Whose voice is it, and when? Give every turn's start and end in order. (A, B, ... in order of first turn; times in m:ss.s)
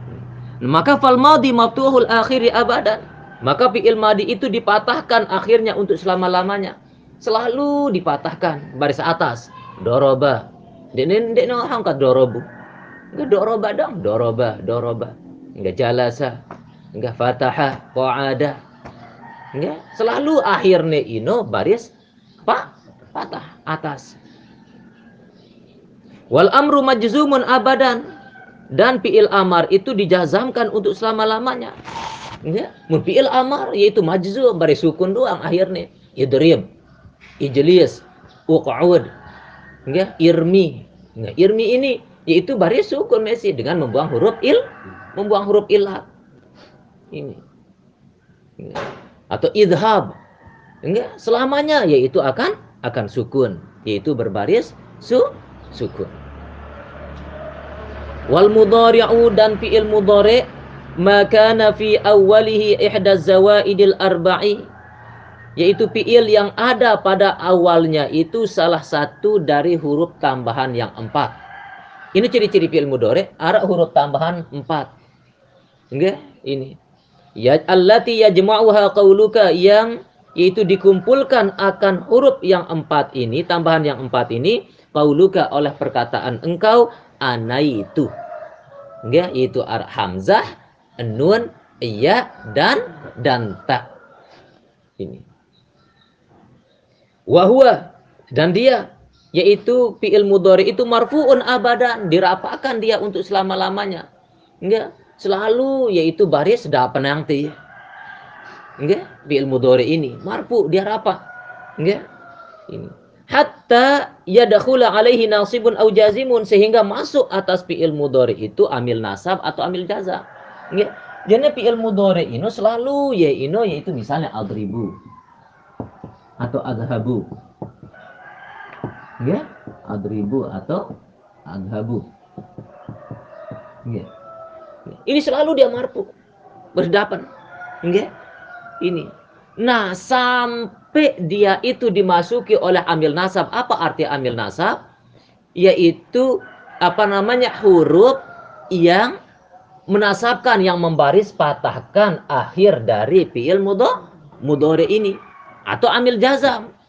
0:00.6-0:12.4 A
0:13.1-0:16.4 A
0:17.0-0:18.6 A
0:19.5-0:21.9 A
0:22.4-0:24.2 A
0:26.3-0:28.0 A
0:28.7-0:31.7 A
0:32.4-0:36.7 A
0:37.4-0:39.1 A
0:39.9-0:44.6 A
0:45.2-0:46.0 A
0:47.1-0:47.4 A
0:48.6-0:50.2 A
0:50.8-0:56.2 A
0:58.3-1:00.4 A
1:01.0-1:04.7 A
1:05.6-1:11.3 A
1:12.1-1:14.9 A
1:15.9-1:16.8 A
1:17.4-1:28.1 A
1:29.0-1:30.4 A
1:31.0-1:33.9 A
1:35.0-1:35.2 A
1:37.3-1:44.0 A
1:44.6-1:47.6 A
1:48.8-1:51.2 A
1:52.7-2:04.9 A
2:06.4-2:07.2 A
2:09.2-2:10.8 A
2:11.5-2:12.1 A
2:14.9-2:16.1 A
2:16.7-2:17.2 A
2:17.8-2:18.1 A
2:18.8-2:19.1 A
2:19.6-2:24.8 A
2:25.6-2:26.3 A
2:26.8-2:28.2 A
2:28.7-2:29.2 A
2:29.9-2:35.2 A
2:35.7-2:36.7 A